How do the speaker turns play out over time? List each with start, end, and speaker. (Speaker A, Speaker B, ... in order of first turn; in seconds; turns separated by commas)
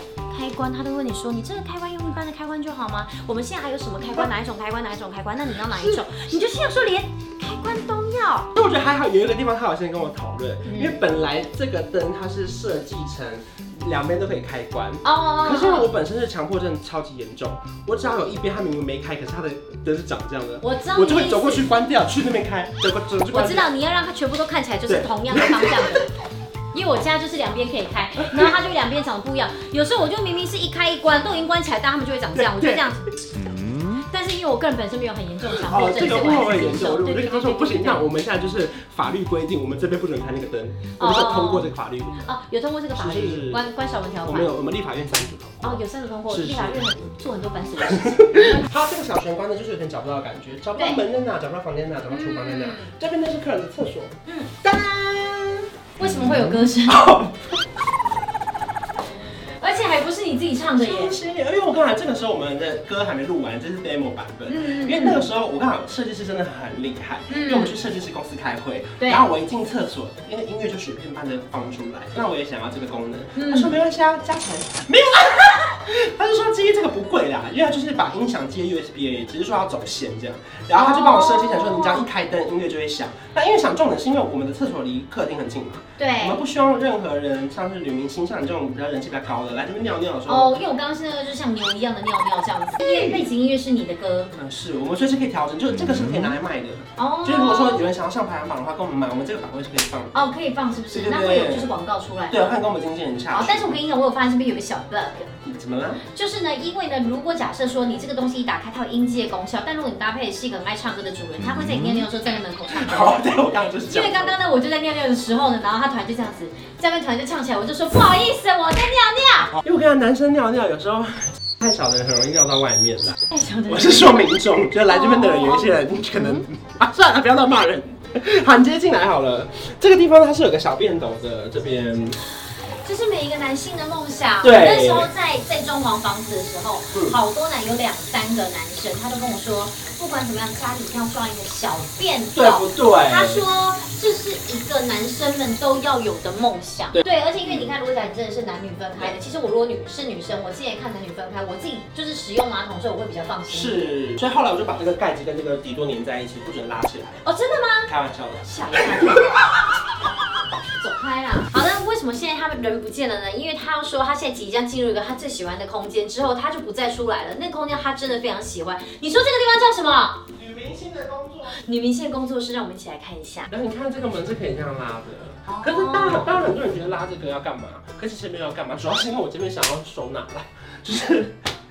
Speaker A: 0.3-8.5, Speaker B: 5.7-6.0, Speaker B: 8.6-23.7, Speaker A: 10.7-11.0, Speaker A: 15.0-15.9, Speaker A: 20.6-21.7, Speaker A: 23.3-26.1, Speaker B: 24.9-26.1, Speaker A: 26.7-38.1, Speaker B: 28.2-28.6, Speaker B: 32.4-32.9, Speaker B: 35.6-42.3, Speaker A: 41.0-41.7, Speaker A: 42.2-44.5, Speaker B: 43.0-43.7, Speaker B: 44.2-47.0, Speaker A: 45.6-48.7, Speaker B: 47.9-57.8, Speaker A: 50.8-51.0, Speaker A: 52.1-52.9, Speaker A: 54.3-54.6, Speaker A: 56.0-57.1, Speaker A: 59.6-61.2, Speaker B: 60.8-90.5, Speaker A: 64.5-65.3, Speaker A: 67.3-67.8, Speaker A: 69.0-69.3, Speaker A: 73.4-73.7, Speaker A: 80.7-82.1, Speaker A: 86.0-86.4, Speaker A: 90.3-94.3, Speaker B: 92.8-93.2, Speaker B: 94.3-100.2, Speaker A: 97.0-97.9, Speaker A: 100.1-102.5, Speaker B: 100.9-101.7, Speaker B: 102.3-103.8, Speaker A: 103.3-105.5, Speaker B: 105.5-106.0, Speaker A: 106.0-119.6, Speaker B: 112.7-114.4, Speaker B: 119.6-132.2, Speaker A: 123.3-124.2, Speaker A: 124.9-126.5, Speaker A: 132.8-153.9, Speaker B: 134.4-135.1, Speaker B: 136.9-137.2, Speaker B: 142.3-143.4, Speaker B: 147.0-147.7, Speaker B: 153.5-157.2, Speaker A: 157.2-157.9, Speaker B: 157.9-159.3, Speaker A: 158.4-159.4, Speaker A: 160.7-170.2, Speaker B: 170.3-171.6, Speaker A: 171.5-173.5, Speaker B: 173.5-181.4, Speaker A: 175.5-176.4